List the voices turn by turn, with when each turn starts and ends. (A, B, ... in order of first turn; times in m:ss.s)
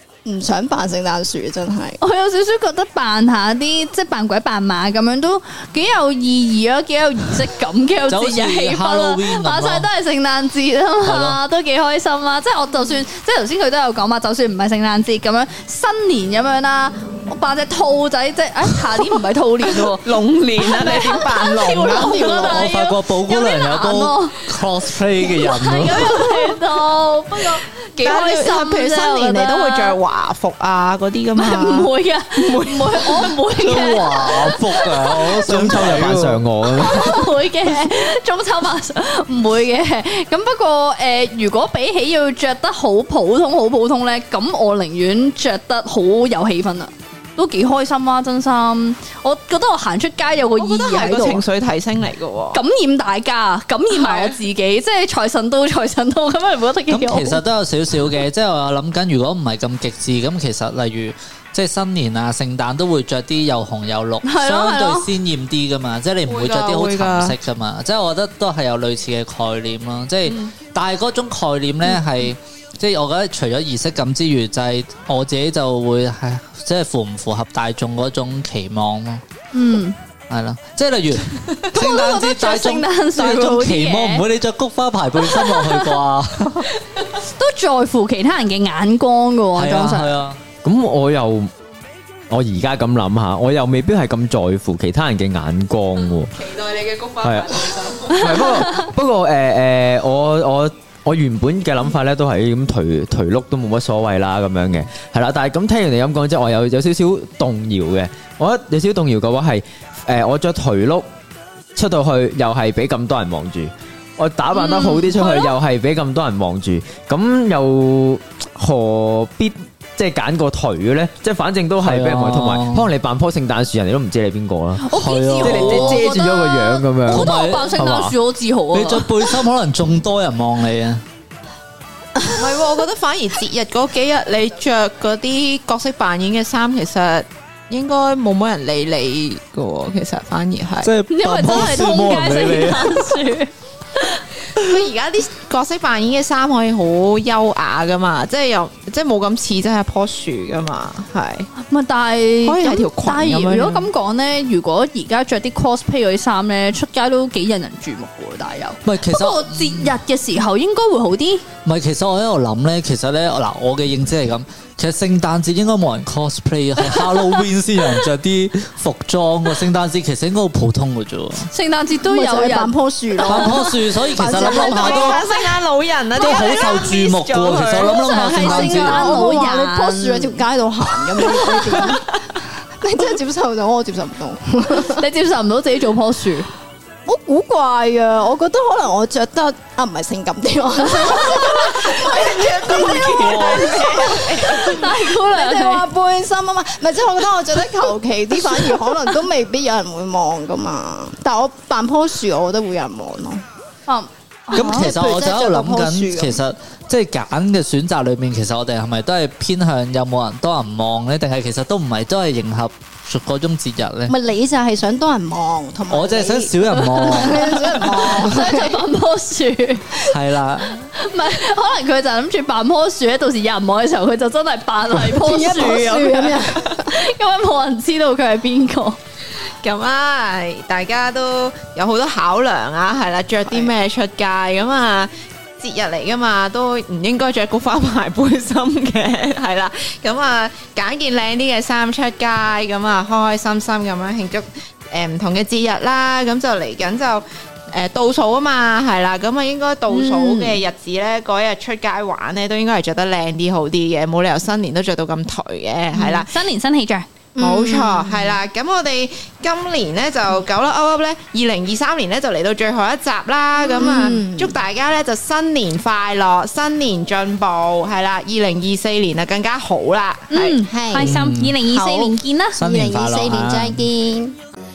0:00.2-0:02.0 A
0:02.0-0:24.4 B
0:08.1-0:09.9 C
0:11.0-0:11.4 C
0:19.7-0:22.3 D
0:22.2-0:26.3 C
0:22.3-0:22.6 A
0:25.2-0:30.0 B
0:28.0-0:33.4 D
0:31.4-0:35.1 B
0:33.6-0:36.4 C
0:35.4-0:37.2 E
0:36.7-0:51.4 B
0:50.6-0:52.6 D
0:52.5-0:57.4 B
0:53.9-0:54.4 D
0:56.9-1:19.2 C
1:04.2-1:05.1 B
1:06.2-1:07.4 D
1:19.5-1:20.0 B
1:20.3-1:26.7 C
1:21.7-1:24.3 B
1:25.4-1:25.6 B
1:27.3-1:30.2 B
1:29.6-1:30.4 C
1:30.6-1:31.5 E
1:32.3-1:36.4 E
1:36.4-1:38.5 D
1:37.2-1:51.1 E
1:51.8-2:04.8 E
1:54.5-1:55.5 B
2:01.8-2:02.9 C
2:04.8-2:09.3 B
2:04.9-2:06.1 C
2:05.4-2:08.1 E
2:07.1-2:08.0 C
2:08.7-2:11.0 C
2:12.3-2:20.9 D
2:20.8-2:23.1 C
2:21.1-2:24.2 B
2:24.6-2:31.5 D
2:31.6-2:41.5 B
2:32.4-2:33.9 D
2:38.8-2:39.9 C
2:41.6-2:51.5 C
2:51.5-2:53.7 B
2:52.0-2:55.5 A
2:53.2-2:55.2 C
2:54.4-2:58.4 D
2:56.2-2:59.1 C
2:57.8-3:00.4 B
2:58.4-3:02.0 A
3:01.0-3:02.0 D
3:02.8-3:05.0 A
3:04.8-3:06.5 B
3:07.1-3:23.4 A
3:11.5-3:14.7 D
3:14.4-3:15.9 B
3:23.9-3:24.9 B
3:24.5-3:26.4 A
3:24.5-3:34.1 C
3:34.1-3:38.8 A
3:35.9-3:38.4 C
3:36.7-3:40.0 B
3:40.0-3:40.9 C
3:40.9-3:49.0 B
3:45.0-3:46.6 A
3:49.6-4:16.3 D
4:09.9-4:10.6 B
4:16.0-4:16.2 A
4:16.3-4:17.1 B
4:17.4-4:18.4 A
4:17.4-4:31.1 D
4:23.7-4:24.6 A
4:30.3-4:32.6 B
4:31.0-4:31.6 C
4:31.7-4:34.4 A
4:32.5-4:33.8 C